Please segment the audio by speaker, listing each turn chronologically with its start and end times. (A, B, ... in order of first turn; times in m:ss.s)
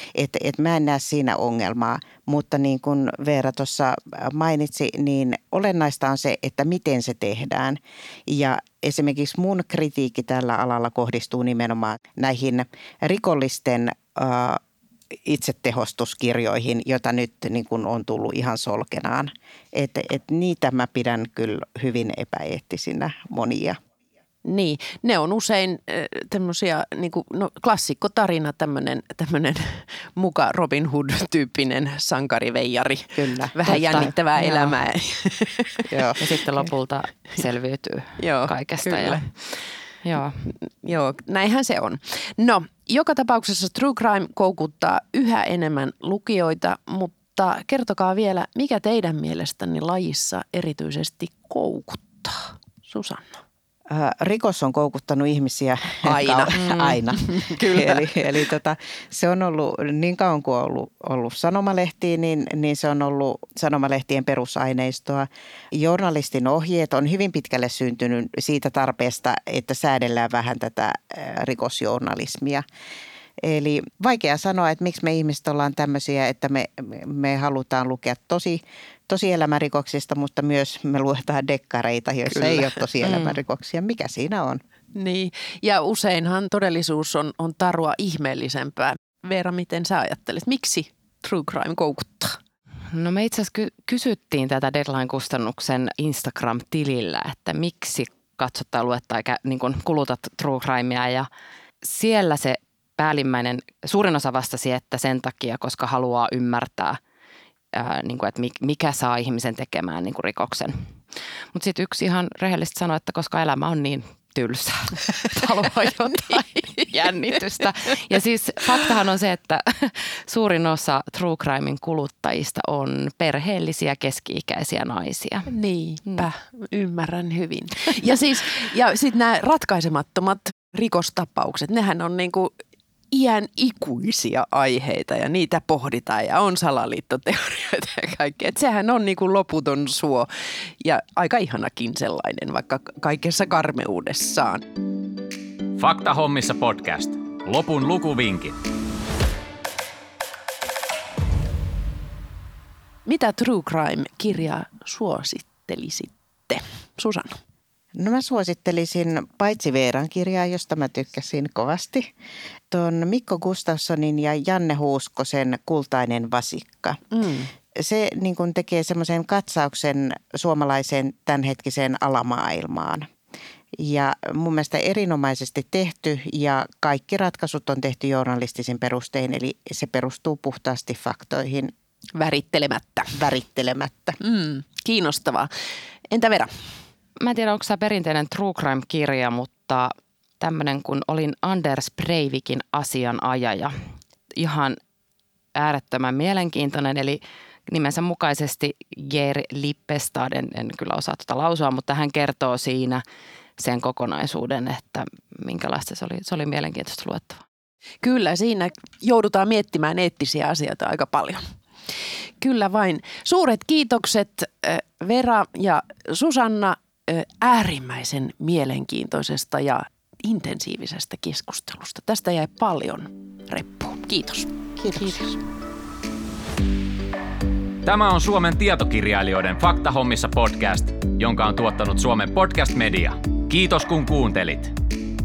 0:00.2-0:14.6 A
0:15.2-0:23.8 A
0:24.4-0:35.9 B
0:33.2-0:34.1 A
0:33.7-0:34.7 C
0:35.9-0:36.7 A
0:36.2-0:39.4 C
0:38.2-0:39.3 B
0:40.0-0:40.5 C
0:40.6-0:53.4 B
0:53.9-1:12.6 A
0:56.0-0:58.2 B
1:13.4-1:24.6 A
1:22.4-1:22.7 B
1:23.0-1:23.3 C
1:25.0-1:32.4 B
1:32.9-1:41.3 C
1:41.8-1:47.0 C
1:47.7-1:50.8 C
1:51.5-2:05.5 C
2:05.5-2:12.6 B
2:13.1-2:24.7 B
2:25.8-2:28.6 D
2:33.1-2:37.4 B
2:38.0-2:42.1 A
2:42.7-2:47.0 A
2:47.1-2:47.5 B
2:47.7-2:53.1 A
2:53.8-3:01.7 A
3:02.2-3:03.3 B
3:03.1-3:04.2 A
3:04.2-3:05.5 B
3:06.1-3:06.7 B
3:07.2-3:13.8 C
3:14.4-3:14.8 C
3:15.6-3:23.0 C
3:23.6-3:27.4 C
3:28.0-3:31.5 B
3:32.4-3:45.2 B
3:44.8-3:45.3 A
3:47.8-3:54.8 D